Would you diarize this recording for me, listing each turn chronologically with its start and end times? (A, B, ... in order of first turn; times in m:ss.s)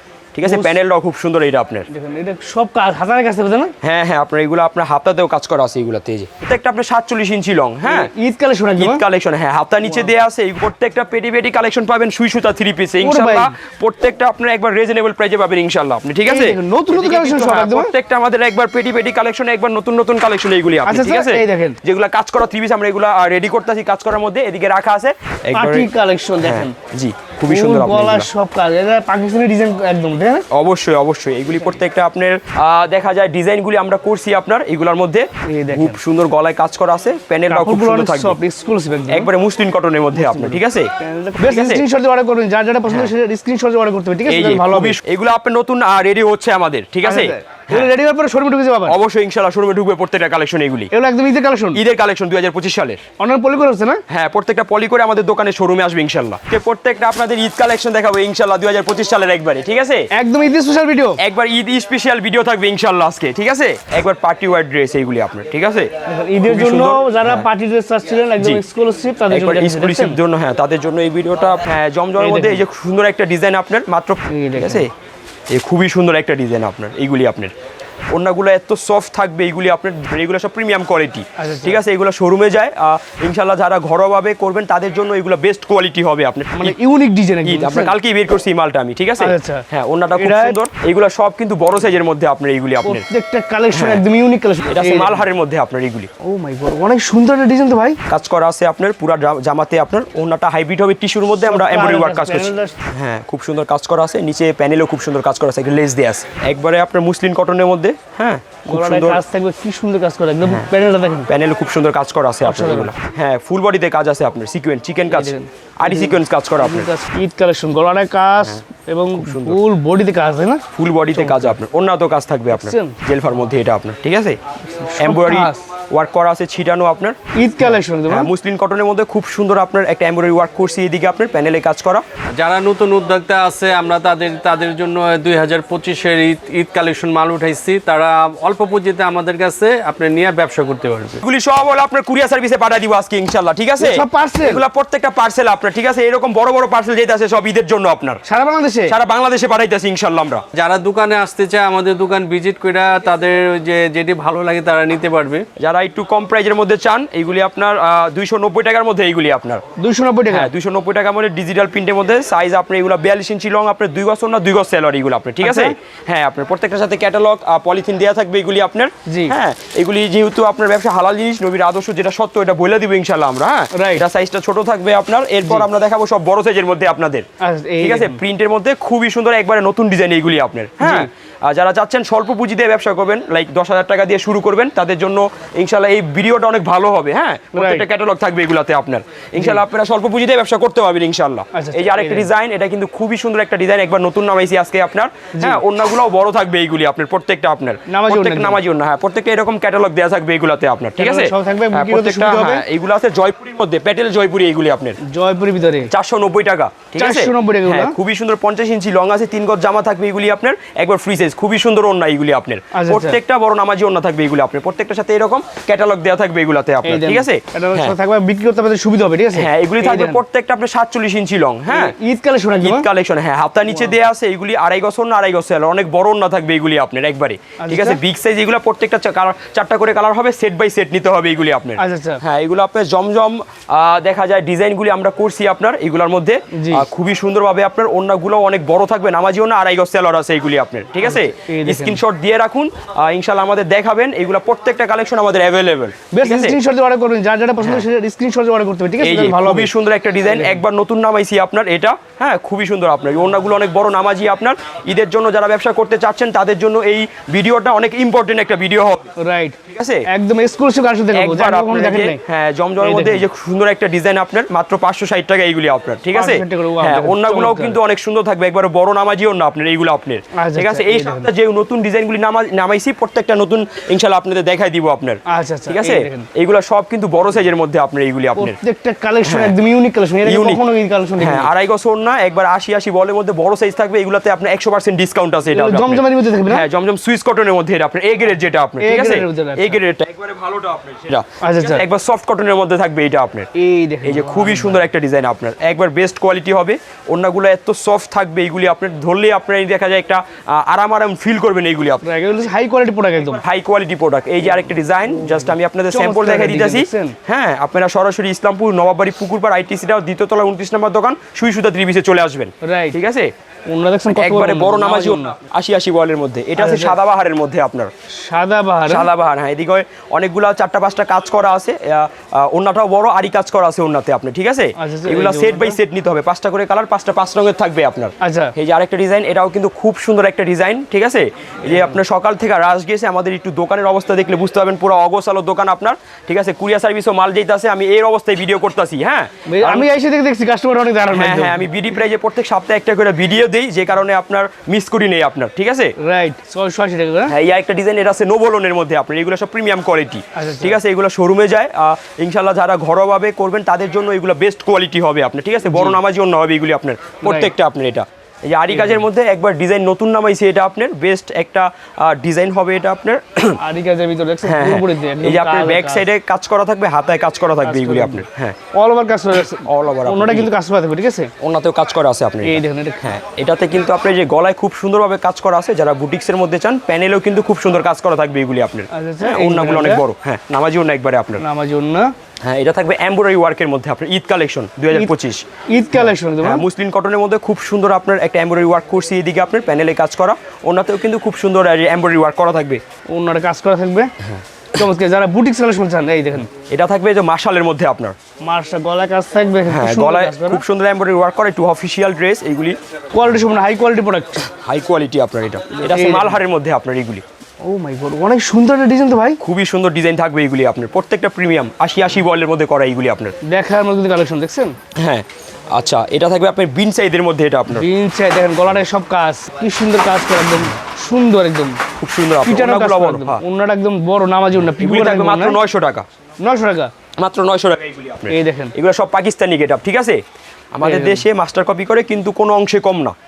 0:00.3-0:01.9 A
0:00.4-0:00.7 B
0:01.9-0:03.7 B
0:03.8-0:08.1 A
0:07.8-0:09.0 B
0:08.8-0:25.9 A
0:13.0-0:13.6 B
0:16.3-0:17.9 B
0:20.8-0:21.8 B
0:25.5-0:26.7 B
0:26.4-0:28.3 A
0:27.5-0:30.5 B
0:30.5-0:38.4 A
0:35.5-0:36.0 B
0:37.5-0:39.3 B
0:39.1-0:41.8 A
0:40.1-0:45.0 B
0:42.9-0:43.1 A
0:44.3-0:47.9 A
0:47.0-0:49.0 B
0:48.9-0:50.9 A
0:50.9-0:51.8 B
0:51.7-0:53.0 A
0:53.2-0:54.0 B
0:54.1-1:00.1 A
1:00.1-1:01.2 B
1:01.2-1:05.9 A
1:06.1-1:10.2 B
1:06.4-1:07.4 A
1:09.3-1:14.9 A
1:12.2-1:12.6 B
1:14.3-1:14.9 B
1:15.5-1:17.5 A
1:18.1-1:26.8 A
1:21.4-1:21.8 B
1:26.5-1:27.9 B
1:27.4-1:33.0 A
1:29.2-1:30.6 B
1:32.8-1:35.2 B
1:33.7-1:34.0 A
1:34.7-1:36.1 A
1:36.2-1:38.0 B
1:38.1-1:49.2 A
1:41.4-1:42.8 B
1:48.7-1:51.3 B
1:50.4-1:50.7 A
1:51.3-1:56.9 A
1:52.4-1:52.9 B
1:55.1-2:01.6 B
1:59.2-1:59.6 A
2:00.7-2:04.4 A
2:02.5-2:03.0 B
2:04.7-2:05.6 B
2:05.0-2:12.0 A
2:07.4-2:08.3 B
2:12.4-2:21.2 C
2:21.2-2:28.2 A
2:23.8-2:24.6 B
2:28.3-2:28.9 B
2:28.9-2:30.4 A
2:30.5-2:35.5 C
2:35.6-2:39.6 A
2:39.8-2:40.5 B
2:40.3-2:57.3 A
2:45.4-2:45.8 B
2:49.1-2:49.4 B
2:53.7-2:54.0 B
2:57.4-2:58.2 B
2:57.8-3:25.0 A
3:00.8-3:01.1 B
3:07.5-3:07.9 B
3:11.5-3:12.3 B
3:15.3-3:15.6 B
3:17.9-3:18.6 B
3:21.0-3:22.6 B
3:25.0-3:25.9 B
3:25.9-3:38.0 A
3:27.0-3:28.0 B
3:32.7-3:33.2 B
3:36.8-3:40.2 B
3:39.3-3:41.9 A
3:41.7-3:42.9 B
3:42.6-4:06.6 A
3:47.6-3:48.0 B
3:51.8-3:52.2 B
3:56.5-3:56.9 B
4:01.0-4:02.0 B
4:06.1-4:09.7 B
4:07.6-4:07.9 A
4:09.0-4:19.1 A
4:10.3-4:10.6 B
4:19.2-4:19.6 B
4:19.7-4:20.1 A
4:20.1-4:22.2 B
4:21.1-4:38.6 A
4:22.8-4:23.2 B
4:26.1-4:27.8 B
4:30.4-4:31.3 B
4:35.3-4:36.3 B
4:38.4-4:41.5 B
4:39.2-4:39.6 A
4:40.2-4:40.6 A
4:41.2-4:53.5 A
4:45.5-4:46.7 B
4:48.8-4:49.8 B
4:51.4-4:51.8 B
4:53.6-4:54.9 B
4:54.0-5:02.0 A
5:02.0-5:03.4 B
5:03.4-5:13.3 A
5:05.2-5:07.2 B
5:12.6-5:13.0 B
5:13.7-5:15.4 B
5:14.1-5:17.9 A
5:16.6-5:17.0 B
5:18.2-5:19.1 B
5:18.9-5:39.9 A
5:24.8-5:25.8 B
5:28.2-5:28.6 B
5:39.5-5:41.7 B
5:41.1-5:45.9 A
5:46.0-5:47.4 B
5:47.3-6:03.6 A
5:50.4-5:50.8 B
5:55.7-5:56.0 B
5:57.2-5:57.5 B
5:58.7-5:59.0 B
6:03.6-6:06.1 B
6:04.4-6:08.6 A
6:07.6-6:11.3 B
6:09.5-6:10.5 A
6:11.4-6:21.4 A
6:12.4-6:13.2 B
6:18.9-6:20.0 B
6:21.4-6:22.1 B
6:22.4-6:25.4 A
6:25.7-6:26.6 B
6:26.0-6:32.8 A
6:33.1-6:34.1 B
6:34.7-6:36.5 B
6:36.7-6:38.2 A
6:38.4-6:40.6 B
6:39.7-6:42.8 A
6:43.1-6:44.5 B
6:44.5-6:47.2 A
6:45.8-6:46.4 B
6:47.6-6:49.4 B
6:49.4-6:53.4 A
6:53.4-6:54.7 B
6:55.0-6:57.9 A
6:57.7-7:01.8 B
7:02.0-7:03.4 A
7:02.4-7:05.6 B
7:04.7-7:06.0 A
7:06.4-7:06.9 B
7:07.2-7:10.2 A
7:08.3-7:08.7 B
7:10.7-7:13.2 A
7:10.8-7:11.2 B